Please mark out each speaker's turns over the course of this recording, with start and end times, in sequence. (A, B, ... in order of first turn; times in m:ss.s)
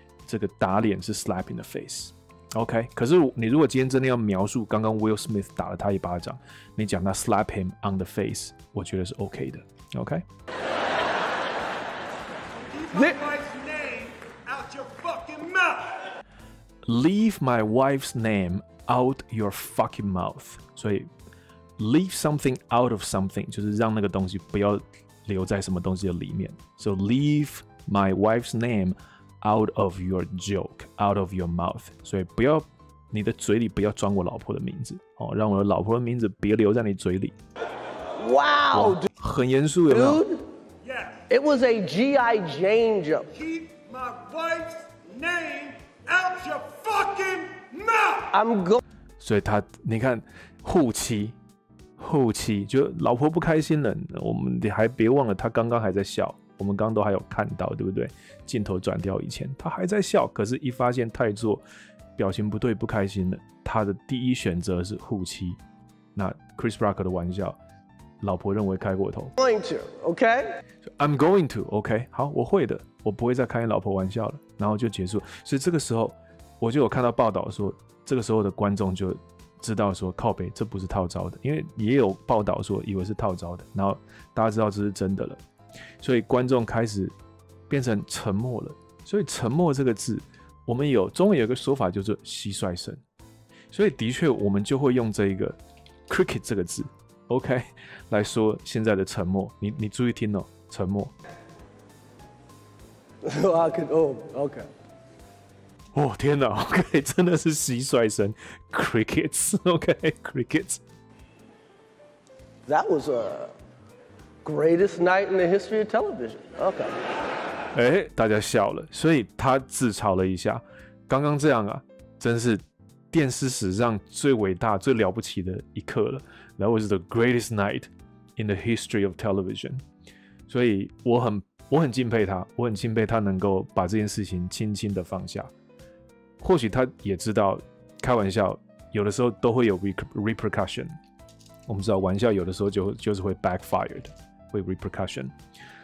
0:00.2-0:10.2 A
0:12.7-0:16.0 B
0:16.8-0:21.1 A
0:21.8-0:37.3 A
0:38.2-0:39.1 C
0:38.7-0:40.2 A
0:39.9-0:40.4 C
0:40.8-0:41.3 B
0:41.3-0:43.3 C
0:43.3-0:48.3 B
0:48.3-0:48.8 C
0:49.2-0:51.4 A
0:52.0-1:01.6 A
1:02.2-1:05.6 A
1:06.1-1:07.6 A
1:08.2-1:09.3 A
1:09.4-1:10.6 C
1:10.8-1:25.4 A
1:26.0-1:27.1 A
1:27.7-1:33.0 A
1:33.7-1:35.6 A
1:36.1-1:41.1 A
1:43.2-1:44.7 C
1:45.9-1:50.8 A
1:52.6-1:53.5 C
1:54.4-1:57.0 C
1:57.7-2:09.8 A
2:10.5-2:15.5 A
2:16.4-2:20.9 A
2:21.7-2:25.3 A